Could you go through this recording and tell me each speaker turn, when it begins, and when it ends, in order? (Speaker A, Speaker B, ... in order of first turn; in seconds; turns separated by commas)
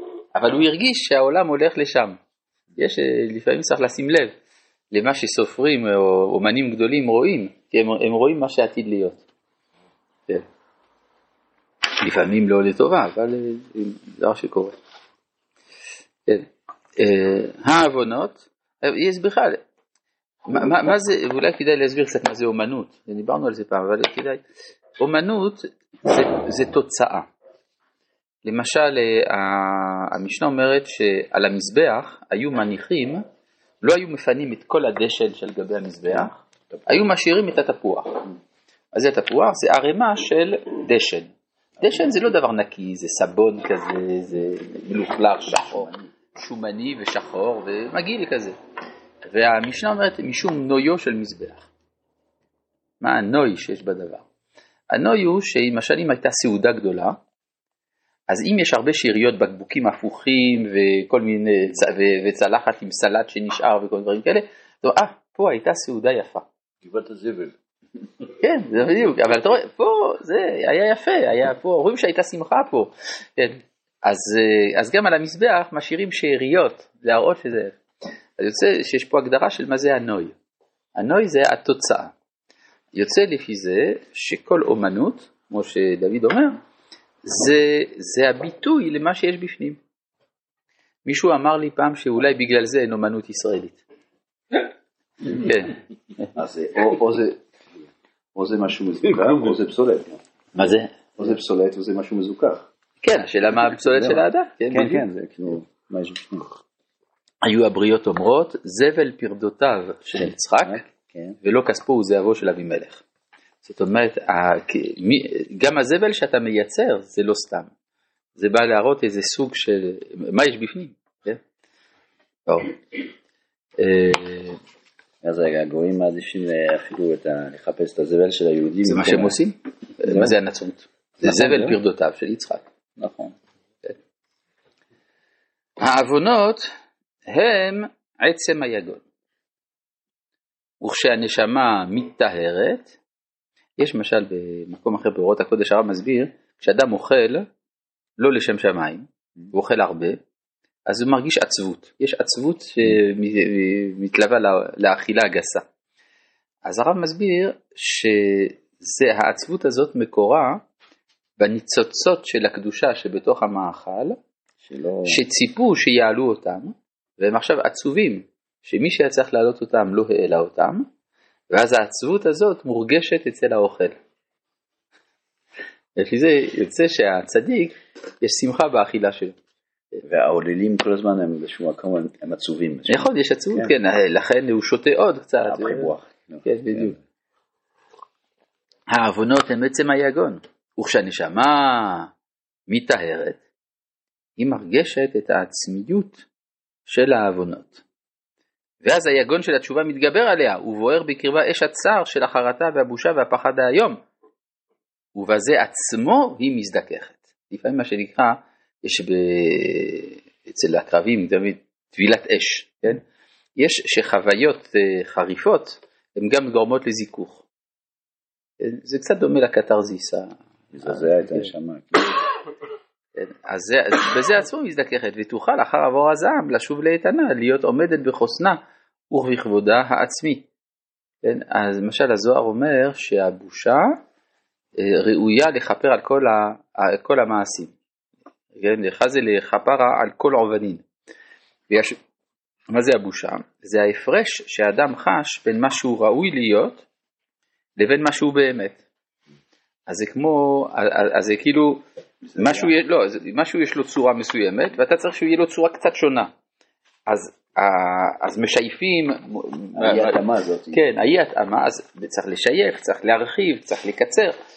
Speaker A: 0.3-2.2, Speaker A: 2.8-4.3, Speaker A: 4.9-9.2, Speaker A: 12.0-14.7, Speaker A: 16.3-19.6, Speaker A: 20.5-24.4, Speaker A: 25.0-27.3, Speaker A: 28.4-33.2, Speaker A: 33.8-38.2, Speaker A: 38.9-48.5, Speaker A: 49.2-51.7, Speaker A: 53.0-54.2, Speaker A: 54.9-57.2, Speaker A: 58.3-66.5, Speaker B: 66.8-67.5, Speaker A: 68.3-77.8, Speaker A: 78.4-80.3, Speaker A: 81.0-82.1, Speaker A: 82.9-86.6, Speaker A: 87.2-89.8, Speaker A: 91.0-93.8, Speaker A: 95.2-95.8, Speaker B: 96.3-97.4, Speaker B: 98.3-102.7, Speaker A: 100.5-100.9, Speaker A: 103.0-105.0, Speaker B: 103.8-106.5, Speaker A: 107.4-110.9, Speaker B: 110.2-111.4, Speaker A: 111.4-113.0, Speaker A: 113.6-117.7, Speaker A: 118.3-121.4, Speaker A: 122.5-123.0, Speaker A: 123.8-124.6, Speaker B: 125.2-129.3, Speaker A: 128.8-132.7, Speaker B: 130.0-130.3, Speaker B: 131.2-131.8, Speaker B: 133.0-133.3, Speaker A: 135.8-136.7, Speaker A: 137.3-139.0, Speaker A: 140.8-142.9, Speaker A: 143.8-147.4, Speaker A: 148.2-150.2, Speaker A: 150.9-155.6, Speaker A: 156.6-160.6, Speaker A: 161.4-164.2, Speaker B: 164.6-165.2, Speaker A: 165.1-170.8, Speaker A: 171.5-174.0, Speaker A: 176.0-179.4, Speaker B: 180.0-183.7, Speaker A: 182.9-185.9, Speaker B: 185.4-187.0, Speaker A: 186.4-186.9, Speaker A: 188.9-192.1, Speaker A: 192.7-193.4, Speaker A: 194.4-196.2, Speaker A: 196.8-197.8, Speaker A: 198.8-204.0, Speaker A: 205.1-213.0, Speaker A: 213.6-217.4, Speaker A: 218.6-221.5, Speaker B: 220.7-222.2, Speaker A: 223.2-228.6, Speaker A: 229.1-230.4, Speaker A: 231.2-234.0, Speaker A: 234.8-237.7, Speaker A: 238.5-240.8, Speaker A: 241.7-242.0, Speaker A: 242.7-246.8, Speaker A: 247.8-248.8, Speaker A: 249.9-251.8, Speaker B: 252.3-252.7, Speaker A: 252.3-256.3, Speaker A: 257.1-260.2, Speaker B: 259.7-260.8, Speaker A: 260.7-264.4